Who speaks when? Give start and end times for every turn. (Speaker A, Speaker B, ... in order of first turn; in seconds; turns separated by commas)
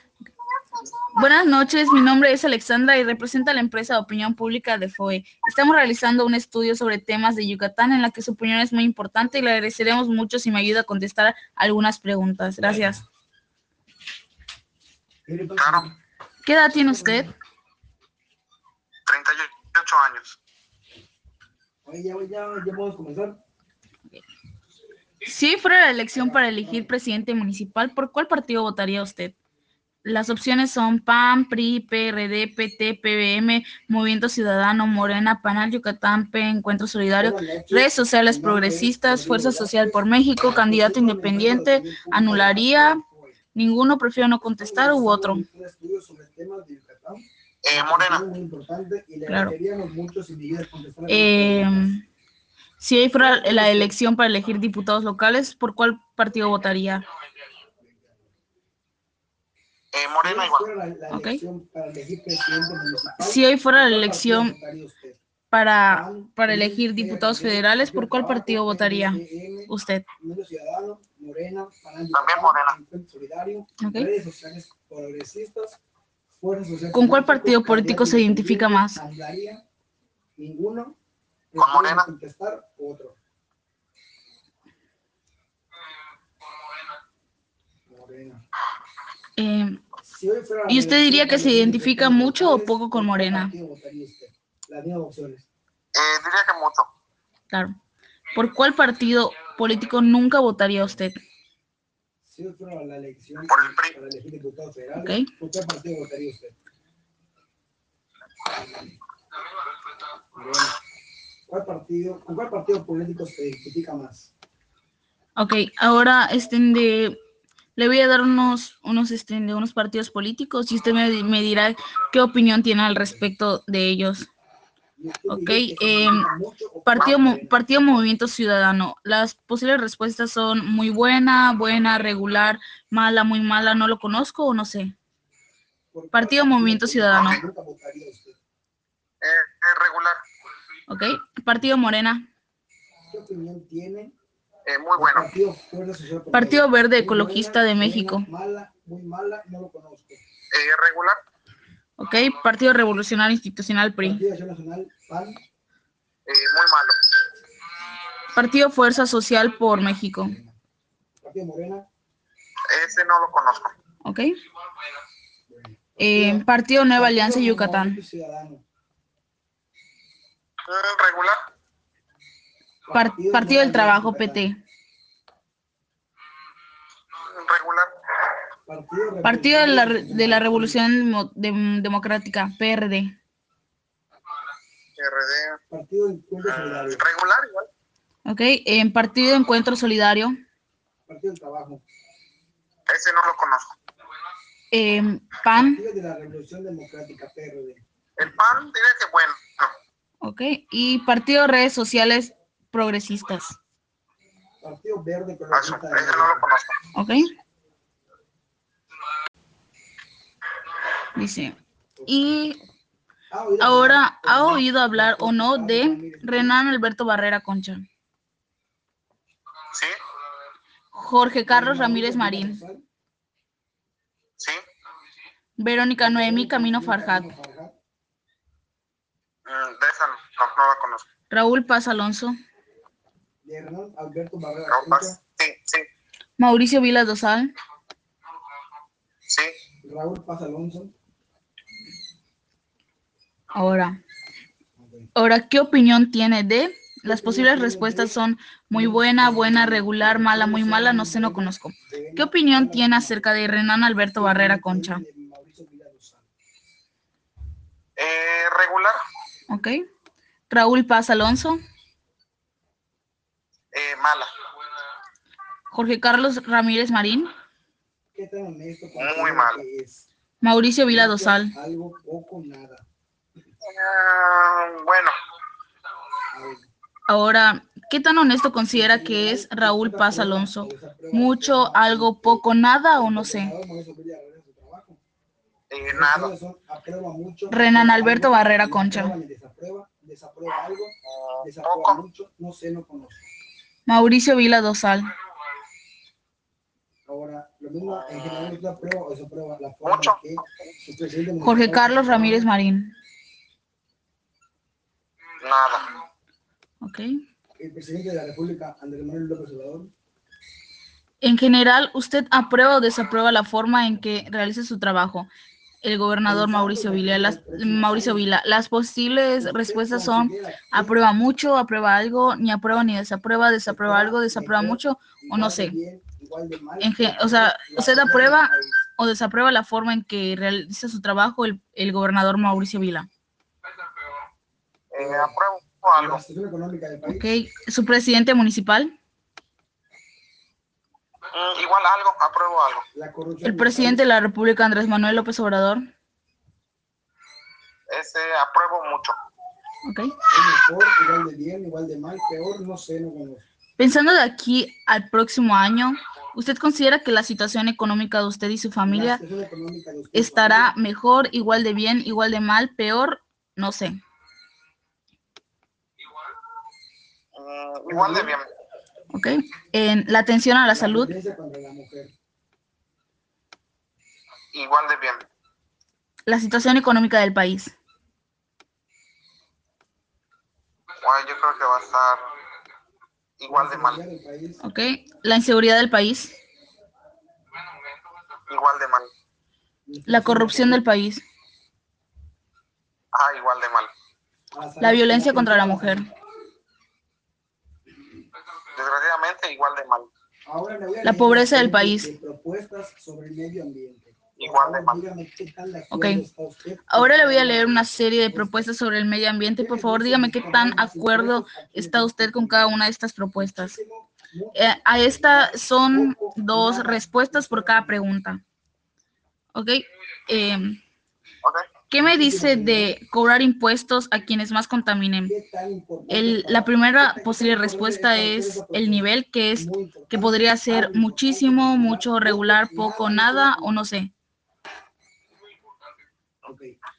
Speaker A: 1.1-13.0, Speaker B: 12.7-13.0, Speaker B: 15.3-15.9, Speaker C: 15.6-15.9, Speaker A: 16.4-17.3, Speaker B: 16.7-17.3, Speaker C: 19.1-20.4, Speaker B: 21.9-23.4, Speaker A: 25.2-29.4, Speaker B: 26.1-26.9, Speaker A: 30.0-43.0, Speaker B: 37.2-43.4, Speaker A: 43.5-45.4, Speaker B: 44.6-52.0, Speaker C: 47.6-48.3, Speaker A: 49.3-49.5, Speaker A: 51.1-52.0, Speaker A: 52.8-57.1, Speaker B: 53.1-54.0, Speaker B: 57.8-58.3, Speaker C: 59.9-60.7, Speaker B: 60.2-65.2, Speaker A: 61.1-61.4, Speaker A: 63.2-64.5, Speaker A: 65.5-70.1, Speaker B: 65.9-75.8, Speaker C: 72.1-72.8, Speaker A: 73.8-74.1, Speaker B: 76.3-79.6, Speaker A: 76.9-79.0, Speaker B: 80.4-81.0, Speaker B: 81.5-83.2, Speaker C: 81.6-82.1, Speaker B: 87.9-88.4, Speaker A: 89.4-89.8, Speaker B: 90.0-95.5, Speaker A: 90.7-93.5, Speaker C: 96.0-96.9, Speaker A: 98.3-101.2, Speaker B: 100.8-101.0, Speaker B: 102.2-106.6, Speaker C: 103.5-104.0, Speaker A: 105.0-105.3, Speaker B: 108.5-108.9, Speaker B: 110.3-110.8, Speaker B: 111.5-114.3, Speaker A: 115.4-117.2, Speaker A: 117.8-124.3, Speaker B: 123.0-123.2, Speaker B: 125.0-127.7, Speaker A: 125.3-126.3, Speaker A: 126.9-134.9, Speaker B: 135.9-138.4, Speaker A: 136.1-137.4, Speaker C: 139.2-140.2, Speaker A: 140.9-142.2, Speaker B: 143.1-144.2, Speaker C: 144.7-145.3, Speaker B: 145.0-150.2, Speaker A: 146.3-148.3, Speaker C: 150.5-151.2, Speaker A: 152.0-154.2, Speaker B: 154.0-155.4, Speaker C: 156.3-157.0, Speaker A: 158.3-160.4, Speaker B: 160.2-160.6, Speaker B: 161.2-161.9, Speaker C: 162.7-163.7, Speaker A: 164.0-164.3, Speaker B: 165.5-168.6, Speaker A: 166.0-168.0, Speaker C: 170.7-171.4, Speaker B: 172.9-174.5, Speaker A: 172.9-174.6, Speaker C: 177.1-177.9, Speaker B: 178.7-180.8, Speaker A: 179.2-183.1, Speaker C: 185.0-185.6, Speaker B: 185.7-187.0, Speaker C: 186.4-187.7, Speaker A: 188.3-190.3, Speaker B: 191.1-191.8, Speaker C: 192.9-193.7, Speaker A: 194.7-195.8, Speaker B: 195.5-197.8, Speaker C: 198.2-199.7, Speaker A: 200.2-203.6, Speaker B: 204.6-206.4, Speaker C: 205.5-206.8, Speaker A: 206.9-207.3, Speaker A: 211.2-211.6, Speaker B: 212.0-212.3, Speaker A: 212.1-212.6, Speaker B: 213.3-216.6, Speaker A: 213.6-217.8, Speaker C: 219.7-220.0, Speaker A: 220.9-222.6, Speaker B: 221.5-222.8, Speaker A: 225.6-227.3, Speaker B: 226.0-227.8, Speaker C: 229.5-231.1, Speaker A: 231.3-232.3, Speaker B: 233.4-235.2, Speaker C: 234.7-235.9, Speaker A: 236.4-237.5, Speaker C: 239.3-239.5, Speaker B: 239.8-240.9, Speaker A: 243.6-244.0, Speaker B: 244.8-245.1, Speaker A: 245.2-255.0, Speaker B: 247.1-248.2, Speaker B: 248.7-253.5, Speaker B: 254.2-256.3, Speaker C: 258.0-259.0, Speaker A: 259.5-259.8, Speaker A: 260.5-261.6, Speaker C: 263.7-264.3, Speaker A: 265.7-267.3, Speaker B: 268.1-270.1, Speaker C: 268.9-269.6, Speaker A: 270.4-271.5, Speaker B: 270.9-272.9, Speaker C: 273.6-275.2, Speaker B: 276.3-276.7, Speaker A: 277.1-283.5, Speaker B: 278.7-285.0, Speaker C: 285.7-286.3, Speaker B: 285.9-293.3, Speaker A: 287.5-289.2, Speaker C: 291.1-292.0, Speaker A: 293.9-295.1, Speaker B: 297.1-302.5, Speaker C: 297.8-298.6, Speaker C: 299.9-300.2, Speaker A: 301.4-302.9, Speaker C: 305.4-306.0, Speaker A: 306.8-307.1, Speaker B: 307.6-309.9, Speaker A: 311.2-315.3, Speaker A: 315.8-325.8, Speaker B: 316.2-318.2, Speaker B: 319.4-321.0, Speaker B: 323.7-328.9, Speaker A: 326.8-333.1, Speaker C: 334.9-336.2, Speaker B: 335.0-335.4, Speaker B: 335.9-337.4, Speaker A: 337.1-338.9, Speaker C: 341.3-342.9, Speaker B: 342.9-344.1, Speaker A: 343.4-345.9, Speaker C: 347.9-349.2, Speaker A: 349.9-350.1, Speaker B: 350.3-353.5, Speaker A: 353.8-359.2, Speaker B: 358.9-360.8, Speaker A: 360.1-364.0, Speaker C: 367.4-368.5, Speaker B: 367.9-368.4, Speaker A: 369.1-371.1, Speaker B: 370.7-372.1, Speaker C: 374.5-375.3, Speaker A: 376.3-377.8, Speaker C: 381.0-382.2, Speaker C: 383.4-384.0, Speaker B: 383.5-384.6, Speaker A: 384.6-386.4, Speaker C: 388.5-389.1, Speaker B: 389.9-390.9, Speaker A: 390.1-391.2, Speaker C: 393.1-393.9, Speaker B: 394.5-396.1, Speaker A: 394.8-396.1, Speaker C: 398.7-400.1, Speaker B: 400.5-408.7, Speaker A: 401.0-402.1, Speaker C: 404.4-405.0, Speaker A: 405.9-406.2, Speaker A: 406.9-413.8, Speaker B: 409.6-412.8, Speaker B: 413.4-418.1, Speaker A: 414.6-418.4, Speaker A: 419.6-420.8, Speaker A: 421.9-425.4, Speaker B: 422.0-423.0, Speaker B: 425.3-433.8, Speaker A: 426.1-434.1, Speaker B: 436.4-436.8